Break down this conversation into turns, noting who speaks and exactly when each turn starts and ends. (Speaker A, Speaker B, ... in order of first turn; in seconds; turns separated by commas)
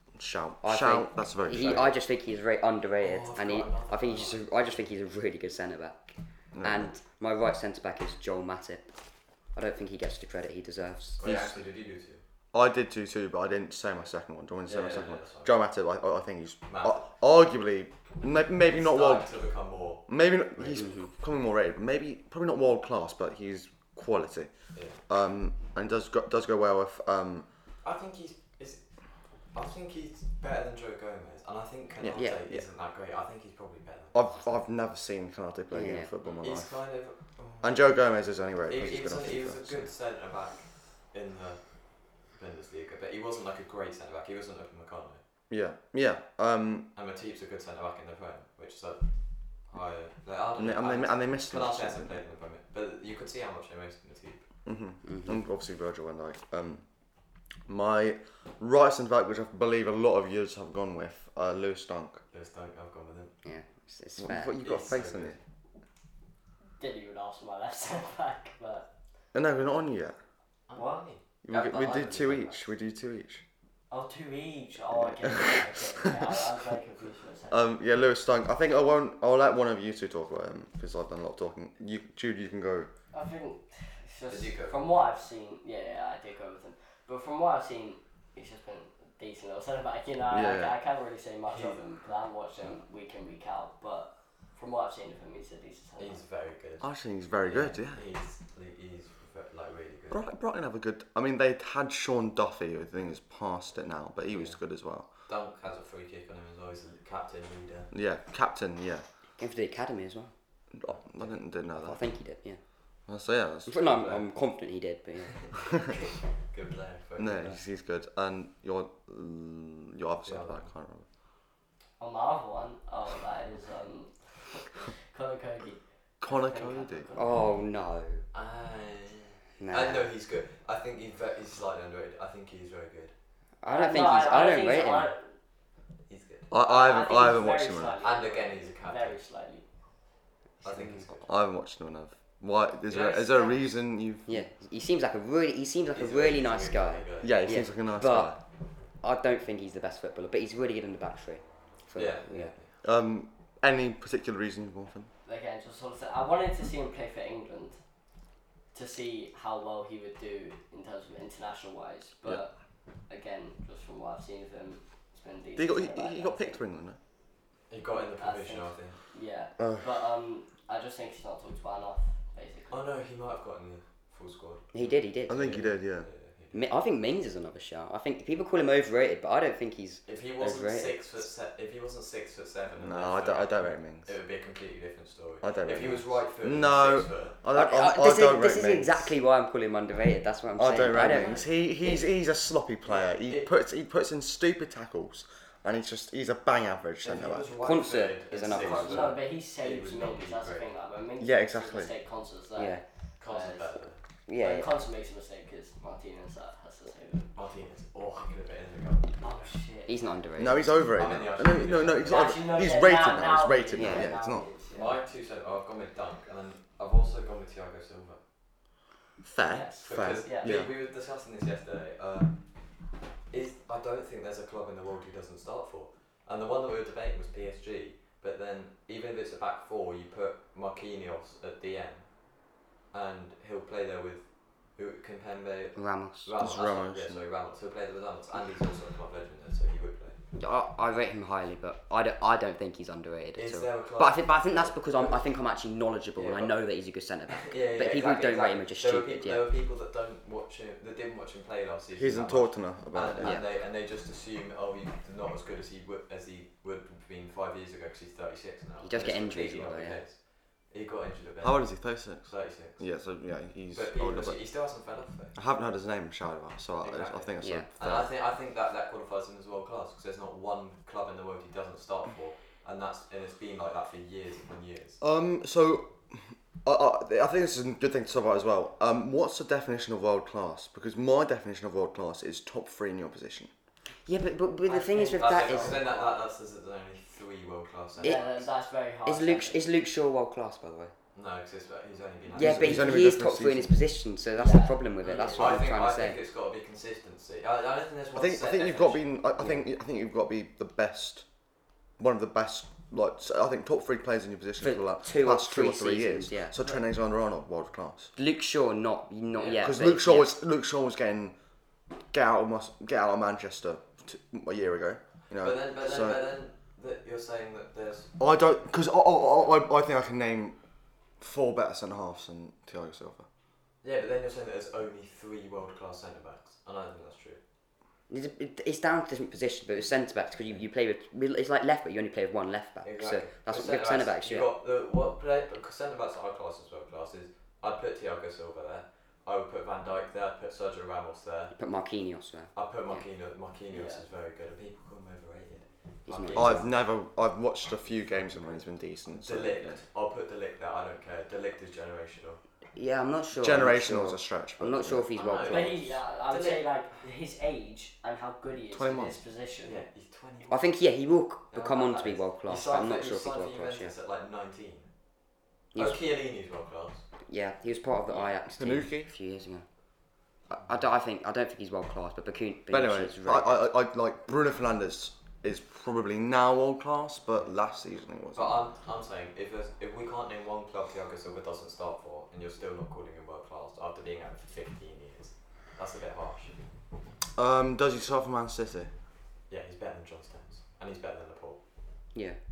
Speaker A: 0.1-1.9, Speaker B: 0.6-8.8, Speaker C: 1.5-1.9, Speaker C: 3.0-4.5, Speaker A: 6.5-6.9, Speaker B: 9.5-11.2, Speaker C: 11.2-12.2, Speaker A: 11.2-11.6, Speaker A: 12.5-19.3, Speaker C: 14.7-15.5, Speaker C: 16.7-17.0, Speaker C: 18.7-20.0, Speaker A: 20.1-24.5, Speaker B: 20.7-21.1, Speaker C: 24.7-25.0, Speaker A: 25.1-27.5, Speaker C: 27.8-28.8, Speaker C: 29.5-34.1, Speaker A: 32.0-32.6, Speaker B: 32.1-32.4, Speaker A: 34.1-36.7, Speaker B: 35.7-36.1, Speaker C: 36.4-37.9, Speaker A: 37.6-39.9, Speaker C: 38.6-41.6, Speaker C: 42.3-45.2, Speaker A: 45.5-46.9, Speaker C: 46.9-49.0, Speaker C: 49.5-54.4, Speaker A: 50.6-52.2, Speaker A: 54.6-56.8, Speaker B: 55.0-55.4, Speaker A: 57.7-62.2, Speaker C: 62.3-63.4, Speaker B: 63.4-64.5, Speaker A: 64.2-65.4, Speaker C: 64.6-65.4, Speaker D: 66.8-68.9, Speaker A: 69.3-70.1, Speaker C: 70.7-72.6, Speaker D: 70.7-71.1, Speaker A: 71.4-73.4, Speaker D: 73.9-77.6, Speaker A: 75.3-75.5, Speaker A: 77.5-82.9, Speaker D: 83.1-96.2, Speaker C: 84.3-84.8, Speaker A: 90.3-90.7, Speaker C: 91.5-91.8, Speaker C: 96.0-96.9, Speaker A: 96.8-98.0, Speaker C: 97.4-100.2, Speaker A: 100.1-105.0, Speaker C: 104.3-104.5, Speaker C: 105.3-107.9, Speaker A: 107.9-109.0, Speaker B: 109.4-110.3, Speaker A: 110.7-112.0, Speaker C: 110.9-111.3, Speaker B: 111.7-112.6, Speaker A: 113.1-113.8, Speaker B: 113.7-115.6, Speaker C: 113.8-114.2, Speaker C: 115.3-117.6, Speaker A: 117.2-121.0, Speaker C: 120.2-120.7, Speaker D: 122.0-127.4, Speaker A: 126.2-127.1, Speaker B: 127.1-128.2, Speaker C: 128.3-133.1, Speaker B: 129.6-130.1, Speaker B: 133.6-135.1, Speaker D: 133.7-135.3, Speaker C: 136.1-136.5, Speaker A: 136.5-138.0, Speaker D: 136.6-139.6, Speaker C: 138.0-139.1, Speaker C: 140.6-141.3, Speaker B: 140.6-141.1, Speaker A: 141.2-144.4, Speaker C: 142.9-143.6, Speaker B: 144.3-148.3, Speaker C: 145.9-147.4, Speaker A: 147.2-148.4, Speaker B: 149.0-152.5, Speaker C: 151.9-152.7, Speaker A: 152.8-155.1, Speaker D: 155.2-157.8, Speaker D: 158.7-162.5, Speaker D: 163.1-166.6, Speaker A: 165.6-167.0, Speaker C: 167.7-169.0, Speaker D: 167.9-172.8, Speaker A: 169.6-169.8, Speaker C: 172.7-176.7, Speaker B: 174.7-175.7, Speaker A: 175.3-176.1, Speaker B: 176.5-181.0, Speaker C: 180.1-187.4, Speaker A: 182.8-184.1, Speaker A: 185.4-189.1, Speaker B: 187.5-192.0, Speaker A: 190.6-197.5, Speaker D: 191.0-191.4, Speaker C: 192.8-193.5, Speaker C: 197.0-200.7, Speaker B: 197.6-199.2, Speaker D: 198.6-203.7, Speaker A: 201.2-201.9, Speaker B: 202.6-202.8, Speaker C: 203.2-204.0, Speaker B: 204.3-204.7, Speaker D: 204.4-207.3, Speaker C: 207.3-209.2, Speaker D: 209.2-210.1, Speaker B: 209.9-210.7, Speaker A: 210.4-214.4, Speaker C: 210.9-212.4, Speaker D: 212.0-215.0, Speaker B: 213.8-214.1, Speaker C: 214.7-218.2, Speaker A: 219.2-220.7, Speaker D: 219.5-220.5, Speaker C: 219.8-222.4, Speaker C: 223.3-232.2, Speaker C: 232.9-240.2, Speaker B: 235.8-236.3, Speaker A: 236.4-237.2, Speaker B: 240.4-249.4, Speaker C: 243.3-245.2, Speaker C: 246.2-246.6, Speaker C: 247.3-262.8, Speaker A: 251.9-253.4, Speaker B: 258.8-260.0, Speaker A: 261.4-264.4, Speaker C: 263.7-265.4, Speaker A: 265.3-268.1, Speaker C: 266.8-275.0, Speaker B: 267.4-267.6, Speaker A: 275.0-283.5, Speaker B: 284.1-285.8, Speaker D: 284.6-286.1, Speaker C: 285.2-288.2, Speaker B: 288.0-288.4, Speaker D: 288.0-289.6, Speaker B: 289.1-290.9, Speaker C: 291.1-293.0, Speaker B: 292.3-296.2, Speaker A: 292.3-293.8, Speaker D: 294.4-295.5, Speaker C: 295.0-299.0, Speaker A: 298.1-301.2, Speaker A: 302.0-308.1, Speaker B: 304.6-306.5, Speaker B: 308.2-310.3, Speaker C: 309.3-309.6, Speaker A: 309.5-311.3, Speaker A: 312.1-316.2, Speaker C: 315.4-318.1, Speaker A: 318.2-320.6, Speaker A: 321.2-323.2, Speaker C: 323.8-327.4, Speaker B: 328.1-334.5, Speaker C: 332.8-341.5, Speaker B: 341.6-343.0, Speaker C: 342.5-346.6, Speaker D: 343.7-344.0, Speaker B: 346.1-346.7, Speaker D: 346.1-346.5, Speaker A: 346.3-349.8, Speaker C: 349.1-352.4, Speaker B: 352.7-355.9, Speaker A: 353.3-355.1, Speaker C: 355.1-356.6, Speaker D: 355.4-359.8, Speaker A: 358.7-359.2, Speaker C: 359.6-360.8, Speaker B: 360.5-363.9, Speaker C: 361.5-364.9, Speaker B: 365.7-366.0, Speaker C: 365.7-367.0, Speaker B: 367.3-369.6, Speaker A: 368.6-369.1, Speaker B: 370.5-373.6, Speaker A: 372.7-378.6, Speaker C: 378.3-386.6, Speaker A: 387.4-388.9, Speaker C: 389.5-391.6, Speaker B: 392.1-392.4